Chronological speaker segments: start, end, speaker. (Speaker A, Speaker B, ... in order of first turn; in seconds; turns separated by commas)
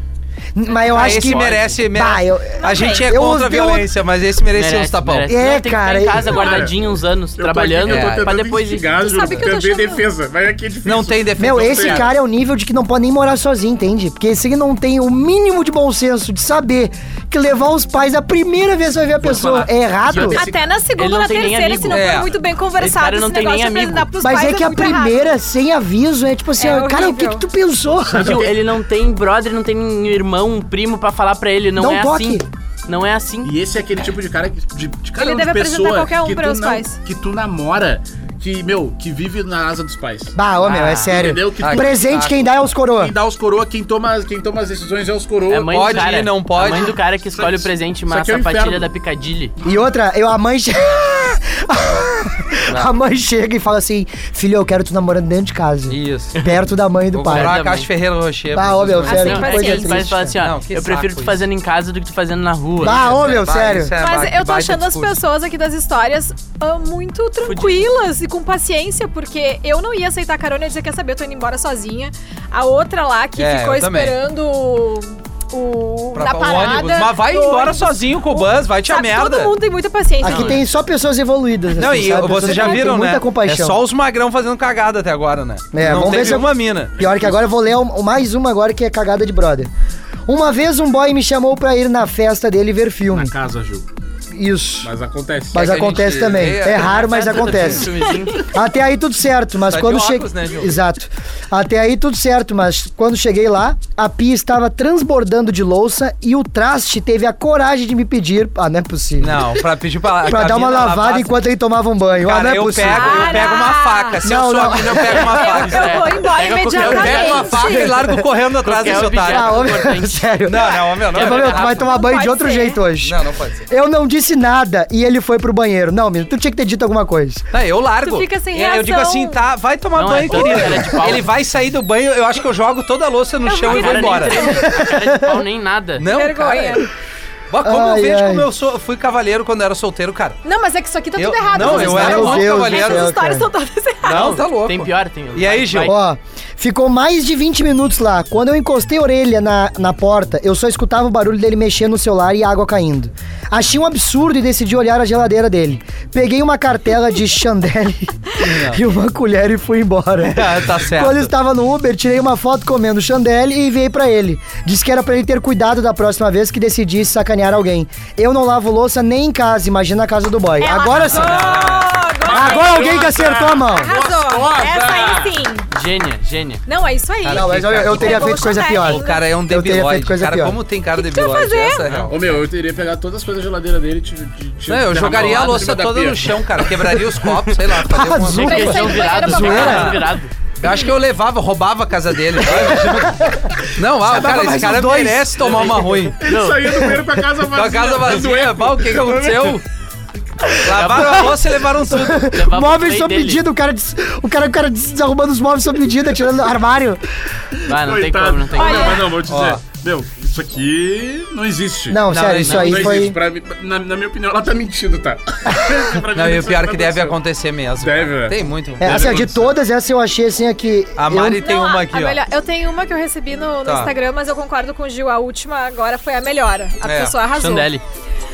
Speaker A: 0.6-3.9, Speaker B: 0.9-5.3, Speaker C: 1.1-1.7, Speaker D: 2.6-3.1, Speaker C: 4.5-8.9, Speaker A: 5.3-6.4, Speaker E: 6.2-12.1, Speaker D: 6.3-6.6, Speaker B: 7.8-8.3, Speaker D: 9.0-10.1, Speaker B: 10.8-12.1, Speaker A: 11.4-20.4, Speaker E: 19.2-20.6, Speaker C: 20.1-20.4, Speaker D: 20.3-25.4, Speaker C: 20.9-22.1, Speaker B: 21.9-22.3, Speaker C: 22.8-24.1, Speaker A: 24.2-28.4, Speaker D: 26.6-27.4, Speaker E: 28.1-28.6, Speaker C: 28.1-33.5, Speaker A: 31.8-32.4, Speaker E: 33.4-40.4, Speaker D: 35.2-37.0, Speaker A: 40.4-43.1, Speaker C: 40.6-41.1, Speaker E: 41.0-42.2, Speaker B: 41.6-42.5, Speaker E: 42.9-46.2, Speaker C: 45.5-49.5, Speaker B: 45.7-46.9, Speaker E: 47.3-48.9, Speaker A: 49.6-57.6, Speaker B: 55.9-56.4, Speaker B: 57.1-59.5, Speaker C: 57.3-57.9, Speaker A: 58.5-60.4, Speaker D: 59.1-60.0, Speaker C: 59.2-63.2, Speaker B: 60.4-61.4, Speaker A: 62.8-63.9, Speaker B: 62.8-65.2, Speaker D: 64.0-80.6, Speaker C: 67.4-67.9, Speaker B: 73.4-74.2, Speaker B: 76.1-79.6, Speaker A: 80.2-83.8, Speaker B: 81.8-87.1, Speaker D: 82.5-82.8, Speaker A: 85.7-89.7, Speaker E: 86.0-86.4, Speaker E: 87.0-87.4, Speaker A: 90.3-93.3, Speaker E: 93.1-93.9, Speaker A: 94.3-94.9, Speaker E: 94.8-95.7, Speaker A: 95.5-97.9, Speaker B: 95.5-97.8, Speaker C: 96.8-98.5, Speaker A: 98.5-109.6, Speaker B: 99.7-100.8, Speaker B: 109.2-111.4, Speaker A: 110.2-113.6, Speaker B: 112.2-116.1, Speaker D: 112.8-114.2, Speaker A: 114.2-115.6, Speaker D: 115.0-117.9, Speaker C: 115.3-117.7, Speaker B: 116.7-119.9, Speaker A: 117.6-118.2, Speaker C: 118.6-120.4, Speaker A: 119.1-127.5, Speaker B: 120.4-121.9, Speaker C: 121.1-121.7, Speaker D: 121.4-122.8, Speaker B: 123.0-123.7, Speaker B: 127.5-134.6, Speaker D: 128.0-129.4, Speaker C: 129.9-131.3, Speaker D: 133.4-134.8, Speaker C: 133.6-136.1, Speaker A: 134.7-135.3, Speaker B: 136.0-136.9, Speaker D: 136.1-136.9, Speaker B: 137.5-140.4, Speaker A: 137.6-138.5, Speaker D: 140.4-144.4, Speaker B: 141.2-143.1, Speaker A: 141.6-143.5, Speaker C: 141.7-142.4, Speaker B: 144.0-145.9, Speaker C: 144.1-145.9, Speaker A: 145.9-171.5, Speaker B: 158.4-158.8, Speaker B: 160.2-161.3, Speaker D: 170.6-175.7, Speaker B: 171.0-172.1, Speaker E: 172.2-175.4, Speaker A: 172.3-173.9, Speaker C: 175.7-176.6, Speaker D: 176.7-179.2, Speaker B: 177.2-182.4, Speaker A: 177.3-180.6, Speaker D: 181.0-181.9, Speaker E: 182.1-186.4, Speaker B: 184.7-190.1, Speaker A: 187.7-190.0, Speaker C: 188.4-190.3, Speaker D: 188.4-190.0, Speaker B: 190.6-196.2, Speaker A: 192.4-193.5, Speaker A: 194.0-196.1, Speaker E: 195.4-199.6, Speaker C: 196.2-196.6, Speaker A: 196.7-197.0, Speaker B: 197.5-199.6, Speaker B: 200.6-202.3, Speaker C: 200.7-201.4, Speaker A: 201.9-207.0, Speaker C: 202.3-203.4, Speaker C: 207.7-209.0, Speaker E: 207.7-217.2, Speaker D: 208.5-209.1, Speaker B: 209.2-209.6, Speaker A: 211.9-213.2, Speaker B: 212.1-213.1, Speaker B: 216.1-219.2, Speaker E: 217.8-219.6, Speaker A: 218.8-221.4, Speaker B: 221.0-222.2, Speaker D: 221.4-227.7, Speaker B: 223.7-223.9, Speaker B: 226.8-227.2, Speaker C: 227.3-227.8